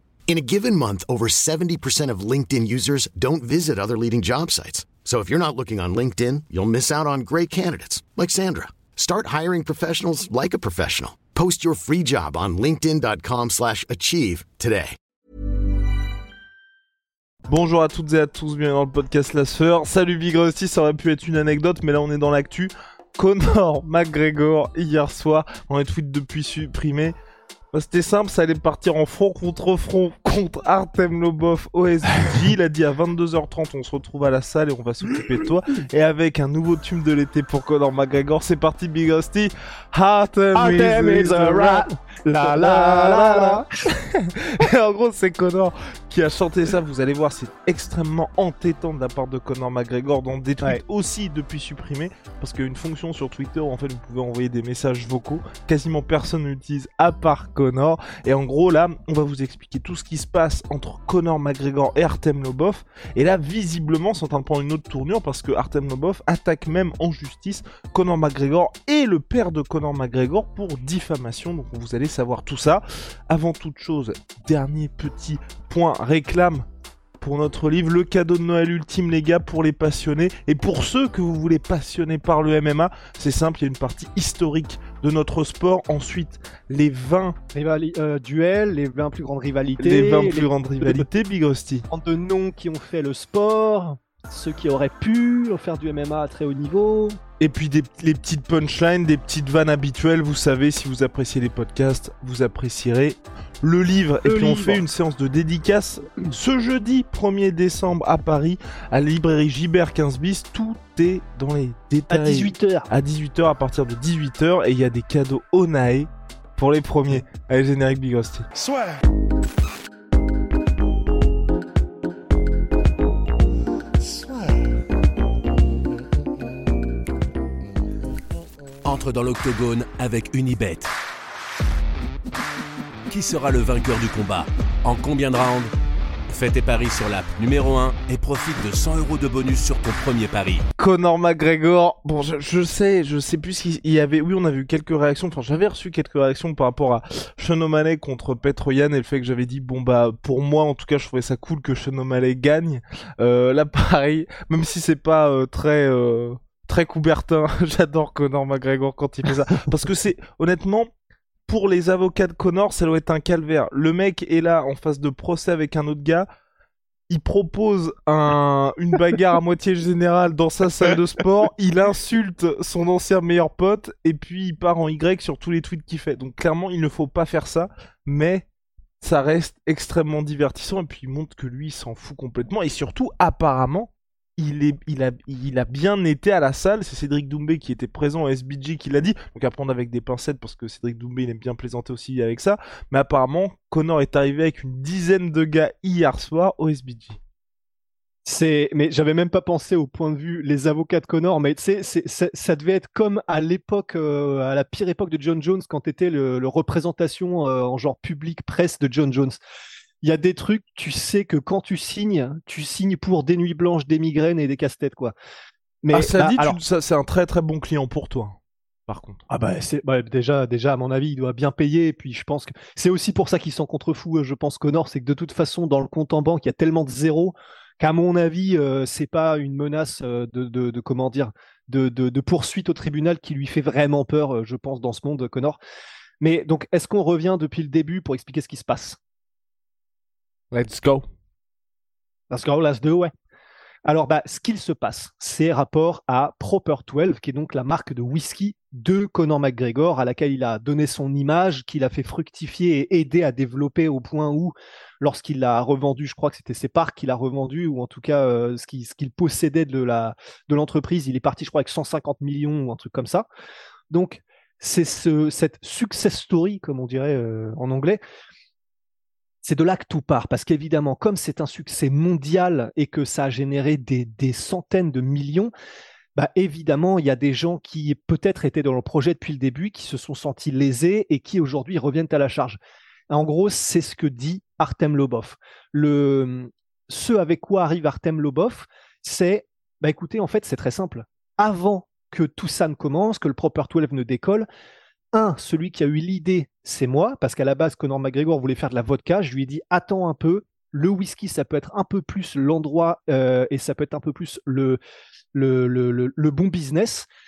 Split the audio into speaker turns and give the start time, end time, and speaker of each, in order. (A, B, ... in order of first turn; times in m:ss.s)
0:00.3-0:15.0 A
0:17.5-0:27.1 B
0:27.7-0:41.8 B
0:40.5-0:43.6 C
0:42.4-1:16.6 B
1:17.2-1:27.4 B
1:27.5-1:31.1 C
1:29.8-1:31.8 B
1:31.9-1:37.2 C
1:37.4-1:58.4 B
1:44.2-1:44.8 C
1:52.1-1:52.9 C
2:08.8-2:10.9 D
2:13.1-2:15.7 D
2:16.3-2:20.6 D
2:20.8-2:40.9 B
2:41.5-2:46.2 B
2:47.1-2:58.4 B
2:59.0-3:17.2 B
3:18.2-3:29.4 C
3:30.0-3:35.1 C
3:35.8-3:36.6 C
3:35.9-3:38.4 B
3:38.9-3:39.2 B
3:39.3-3:55.6 C
3:56.2-3:59.0 C
4:00.5-4:01.0 B
4:02.3-4:03.1 C
4:03.8-4:23.3 C
4:23.9-4:28.0 C
4:29.4-4:35.5 C
4:36.1-4:42.6 C
4:43.1-4:54.5 C
4:55.1-5:04.8 C
5:05.3-5:07.1 C